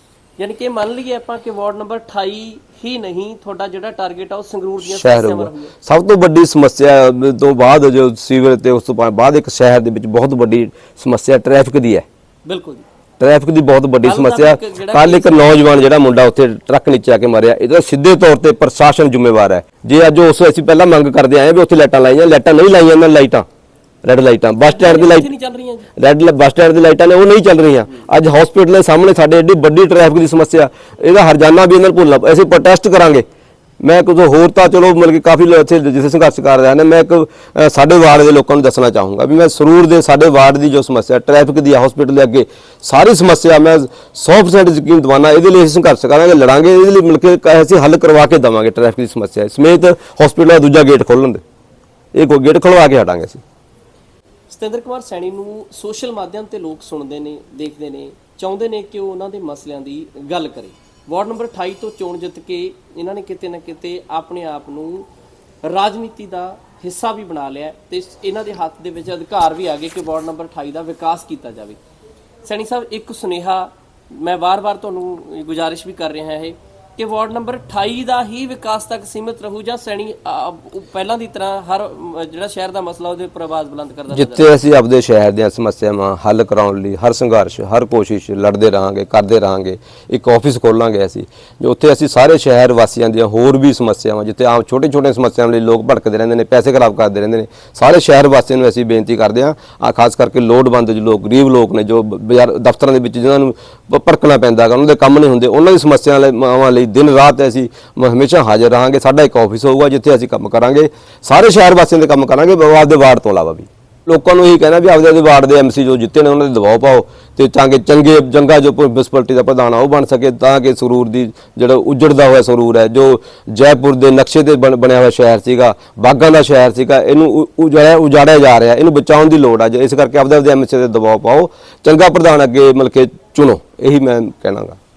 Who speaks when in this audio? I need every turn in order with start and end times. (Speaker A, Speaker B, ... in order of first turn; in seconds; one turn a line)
Speaker A: 0.4-5.7
Speaker B: 4.8-12.0
Speaker A: 12.4-12.8
Speaker B: 13.2-23.4
Speaker A: 14.0-15.6
Speaker B: 24.0-25.3
Speaker A: 24.6-25.9
Speaker B: 25.9-33.2
Speaker B: 33.8-51.4
Speaker B: 52.1-53.4
Speaker A: 54.5-65.1
Speaker A: 65.6-71.8
Speaker A: 72.4-84.5
Speaker B: 84.1-134.8